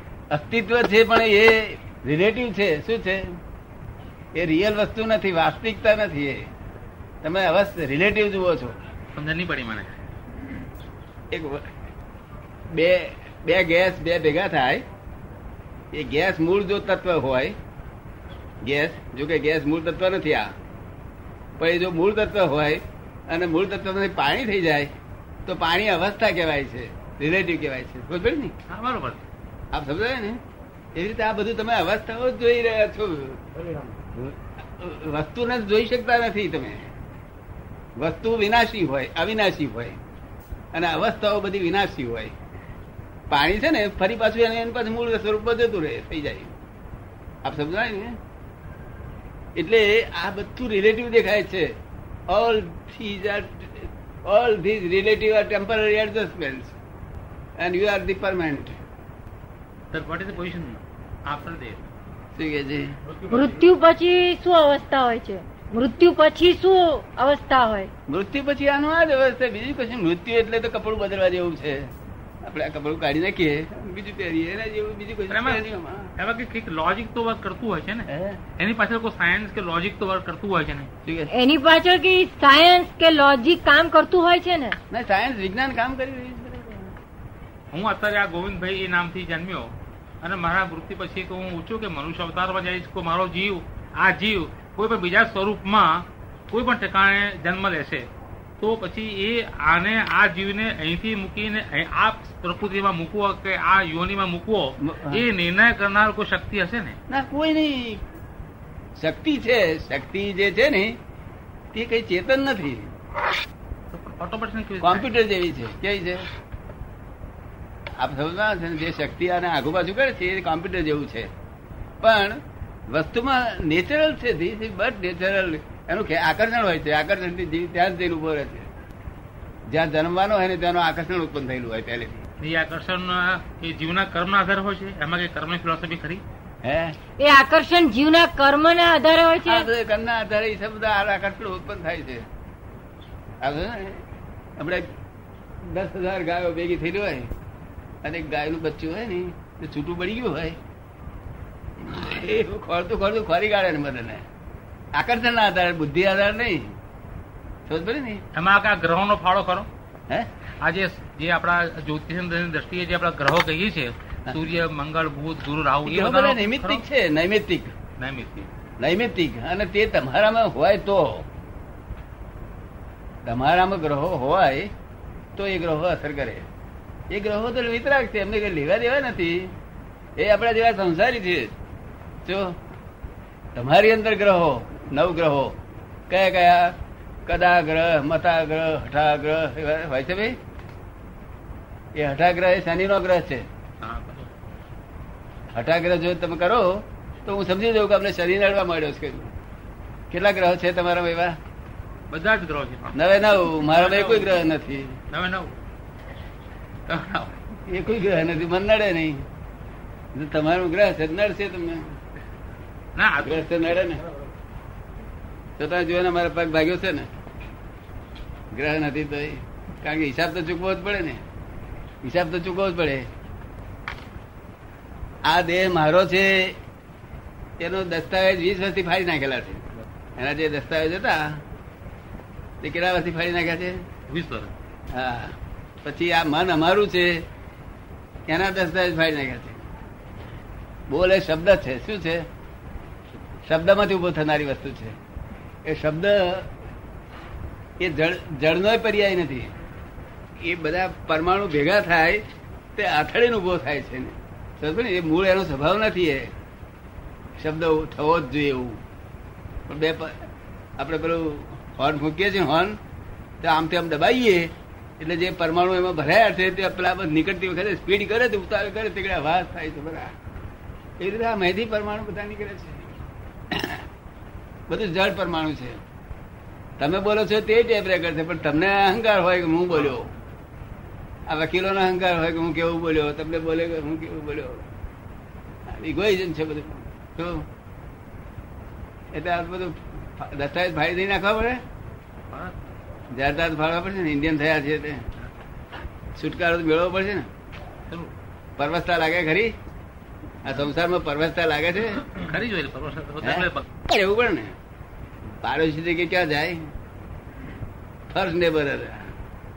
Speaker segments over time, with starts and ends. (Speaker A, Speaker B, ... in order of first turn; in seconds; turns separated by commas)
Speaker A: 0.3-3.4, Speaker A: 4.3-6.5, Speaker A: 7.2-8.8, Speaker B: 9.1-9.9, Speaker A: 11.3-11.7, Speaker A: 12.7-14.8, Speaker A: 15.9-17.6, Speaker A: 18.6-20.5, Speaker A: 21.6-24.9, Speaker A: 25.4-28.6, Speaker B: 28.7-29.2, Speaker A: 29.7-30.4, Speaker A: 30.9-36.9, Speaker A: 38.0-40.0, Speaker A: 40.7-42.3, Speaker A: 43.3-46.6, Speaker A: 47.4-48.2, Speaker A: 49.6-51.7, Speaker A: 52.3-56.8, Speaker A: 57.6-58.8, Speaker B: 59.9-61.9, Speaker A: 62.4-63.0, Speaker B: 63.2-63.6, Speaker C: 63.3-67.9, Speaker A: 68.1-71.9, Speaker A: 72.4-76.1, Speaker B: 75.3-75.7, Speaker B: 76.2-80.9, Speaker A: 78.1-78.4, Speaker A: 81.0-81.3, Speaker C: 81.3-84.8, Speaker A: 84.9-87.0, Speaker B: 87.7-98.1, Speaker B: 98.6-107.0, Speaker A: 104.8-105.3, Speaker A: 107.1-108.0, Speaker A: 109.0-111.0, Speaker A: 111.7-112.9, Speaker B: 113.9-115.1, Speaker A: 114.8-116.2, Speaker A: 118.0-121.3, Speaker A: 122.0-122.4, Speaker A: 122.9-128.7, Speaker A: 129.7-132.2, Speaker B: 132.4-136.2, Speaker A: 136.6-137.0, Speaker C: 137.2-139.7, Speaker A: 139.4-142.3, Speaker A: 143.4-144.1, Speaker A: 144.6-144.9, Speaker A: 145.6-147.3, Speaker A: 148.0-150.6, Speaker A: 151.8-154.3, Speaker A: 154.9-156.8, Speaker A: 157.7-158.2, Speaker B: 158.3-159.7, Speaker B: 160.6-166.8, Speaker A: 165.8-167.7, Speaker B: 168.0-168.5, Speaker A: 168.8-171.3, Speaker A: 173.2-174.7, Speaker A: 175.4-176.5, Speaker A: 177.1-179.5, Speaker A: 180.2-181.5, Speaker A: 182.2-182.6, Speaker A: 183.6-185.6, Speaker A: 186.1-186.8, Speaker A: 187.3-190.4, Speaker A: 191.9-193.5, Speaker B: 193.8-194.4, Speaker A: 195.5-199.3, Speaker A: 200.1-201.4, Speaker B: 202.1-203.0, Speaker A: 202.9-205.0, Speaker B: 203.5-204.4, Speaker B: 205.1-205.6, Speaker B: 206.9-207.4, Speaker A: 207.7-209.2, Speaker A: 210.1-212.0, Speaker B: 212.9-213.5, Speaker A: 213.2-214.0, Speaker A: 215.6-217.1, Speaker A: 218.5-221.2, Speaker A: 222.0-223.1, Speaker A: 225.2-226.6, Speaker A: 227.6-231.4, Speaker A: 232.6-233.8, Speaker B: 234.1-234.5, Speaker A: 234.9-237.2, Speaker A: 238.3-239.7, Speaker A: 240.9-242.3, Speaker A: 243.5-245.0, Speaker A: 245.7-246.5, Speaker A: 247.8-249.5, Speaker A: 250.4-252.2, Speaker A: 252.8-256.3, Speaker A: 257.4-258.8, Speaker A: 259.7-262.8, Speaker A: 263.4-270.1, Speaker A: 271.0-273.0, Speaker A: 273.5-273.9, Speaker A: 274.7-275.8, Speaker A: 276.8-280.1, Speaker A: 281.3-284.6, Speaker A: 285.7-287.5, Speaker A: 289.1-291.6, Speaker B: 292.3-292.6, Speaker A: 293.1-295.1, Speaker A: 296.2-297.3, Speaker B: 297.9-298.1, Speaker A: 298.6-299.5, Speaker A: 300.4-302.1, Speaker B: 302.0-303.7, Speaker A: 303.2-304.6, Speaker A: 305.4-306.7, Speaker A: 308.1-309.1